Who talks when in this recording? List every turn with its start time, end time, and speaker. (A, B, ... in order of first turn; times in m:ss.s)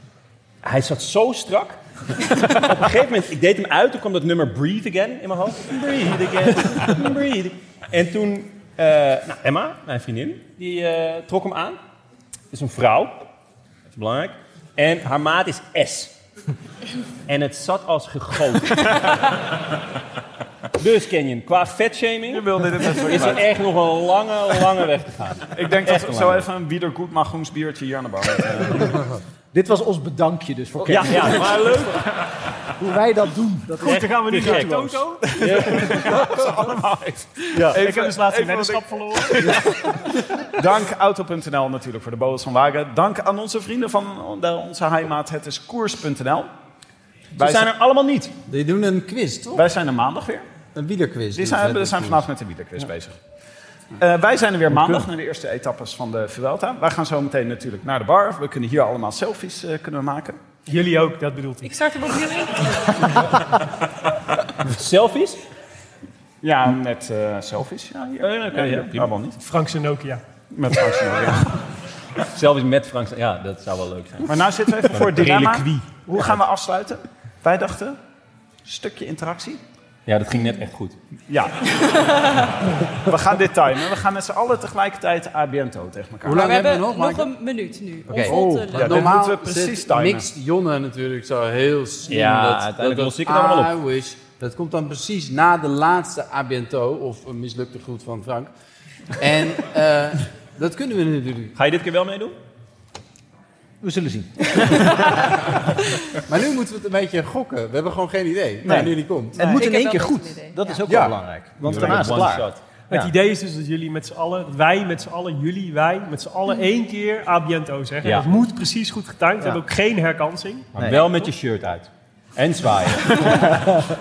0:00.6-0:01.8 A
0:02.4-0:11.8 A
0:12.5-0:13.3 A
0:13.9-0:16.2 A
0:17.3-0:19.0 A
0:20.8-0:26.5 A
0:22.3-0:23.5 B
0:25.5-0:29.1 B
0:29.5-0:31.7 C
0:30.9-0:32.1 A
0:32.8-0:35.0 C
0:33.8-0:36.1 A
0:33.8-0:36.0 D
0:35.3-0:46.5 B
0:37.5-0:37.9 A
0:37.7-0:39.6 D
0:47.4-0:48.3 A
0:47.4-0:47.8 B
0:48.5-0:49.6 E
0:49.5-0:50.5 B
0:50.8-0:52.3 E
0:51.3-0:53.2 B
0:54.0-1:00.4 B
0:54.7-0:55.0 A
1:00.7-1:01.7 D
1:01.6-1:03.0 F
1:04.6-1:05.4 A
1:06.4-1:09.4 B
1:08.2-1:09.1 A
1:09.4-1:10.2 D
1:10.5-1:11.6 B
1:12.3-1:16.4 A
1:14.3-1:18.0 B
1:18.6-1:19.6 B
1:20.1-1:21.0 A
1:21.3-1:21.7 B
1:21.7-1:22.5 F
1:23.0-1:26.5 B
1:26.2-1:27.3 E
1:26.3-1:29.3 F
1:28.1-1:38.5 E
1:28.7-1:30.3 B
1:32.1-1:33.8 A
1:39.2-1:41.5 E
1:41.6-1:42.4 A
1:43.8-1:45.2 C
1:46.3-1:49.4 E
1:48.6-1:49.7 B
1:49.4-1:53.1 C
1:49.4-1:50.8 F
1:50.9-1:52.6 A
1:52.9-2:00.7 D
1:58.0-1:58.3 A
2:00.7-2:03.5 A
2:00.8-2:01.1 C
2:03.2-2:03.5 F
2:03.5-2:03.9 C